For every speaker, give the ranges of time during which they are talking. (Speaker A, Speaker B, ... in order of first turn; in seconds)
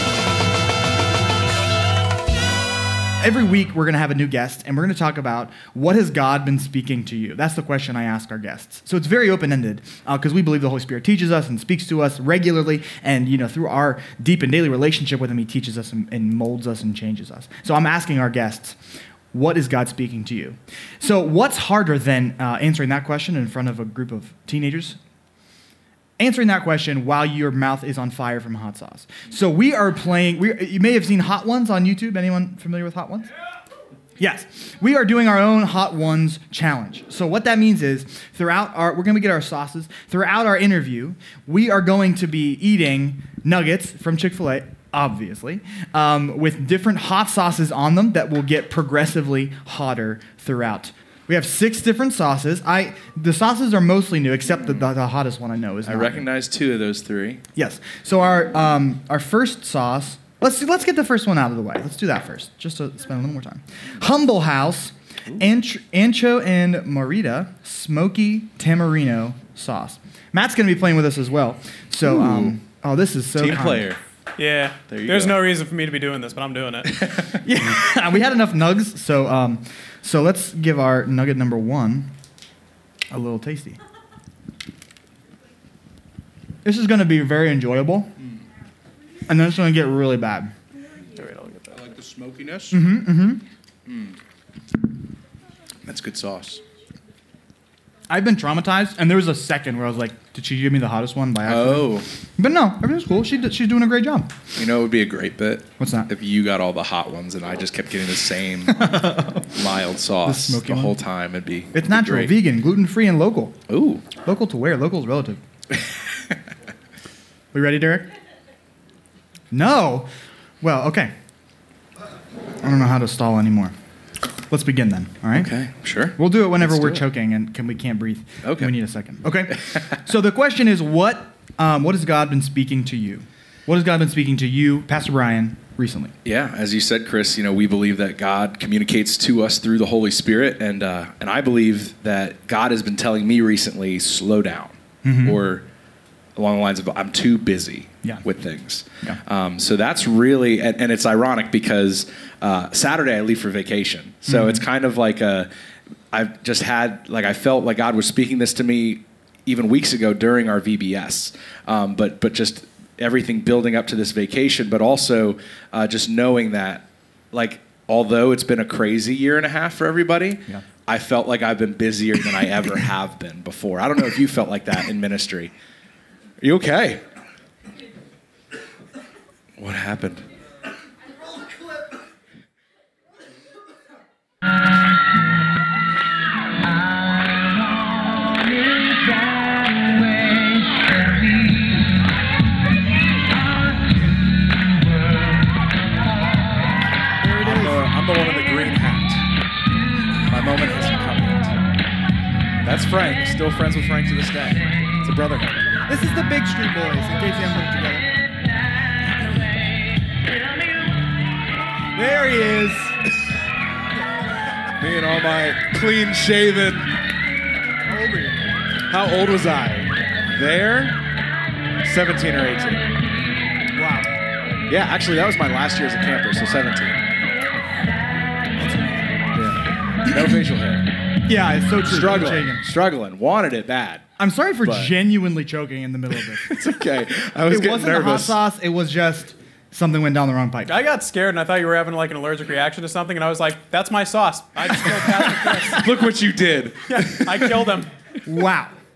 Speaker A: 3.2-18.8, 19.3-25.0, 26.2-33.3, 34.2-56.3, 57.5-73.9, 77.4-82.1, 83.1-83.8, 86.7-88.1, 89.3-90.5, 92.7-93.4, 98.1-104.3, 105.8-106.1, 108.7-109.5, 110.2-111.0, 111.7-113.6, 114.2-115.4, 117.5-118.1, 119.5-120.1, 120.6-121.1, 122.6-123.7, 124.5-125.5, 126.2-136.1, 145.0-145.4, 154.3-154.7, 197.2-197.9, 205.9-208.1, 211.9-213.0, 217.9-218.6, 223.7-224.2, 228.6-229.5, 231.3-232.6, 234.2-236.6, 237.5-240.8, 245.5-245.8, 248.3-248.7
Speaker B: 55.9-57.4, 72.0-72.6, 73.4-74.0, 74.9-75.4, 76.9-77.4, 91.7-92.9, 93.9-94.2, 95.9-96.6, 101.5-102.1, 104.6-112.4, 113.7-114.0, 115.7-116.3, 125.3-127.0, 128.4-128.7, 136.2-145.7, 146.4-155.5, 156.1-175.5, 176.4-177.0, 179.6-180.2, 197.2-199.3, 200.3-201.6, 202.6-205.8, 214.8-216.9, 218.9-221.0, 221.8-222.9, 224.7-227.0, 230.1-230.9, 231.8-234.1, 234.6-234.9, 236.3-238.4, 245.5-247.7
Speaker C: 74.4-77.0, 91.2-91.8, 240.7-245.9, 246.9-247.9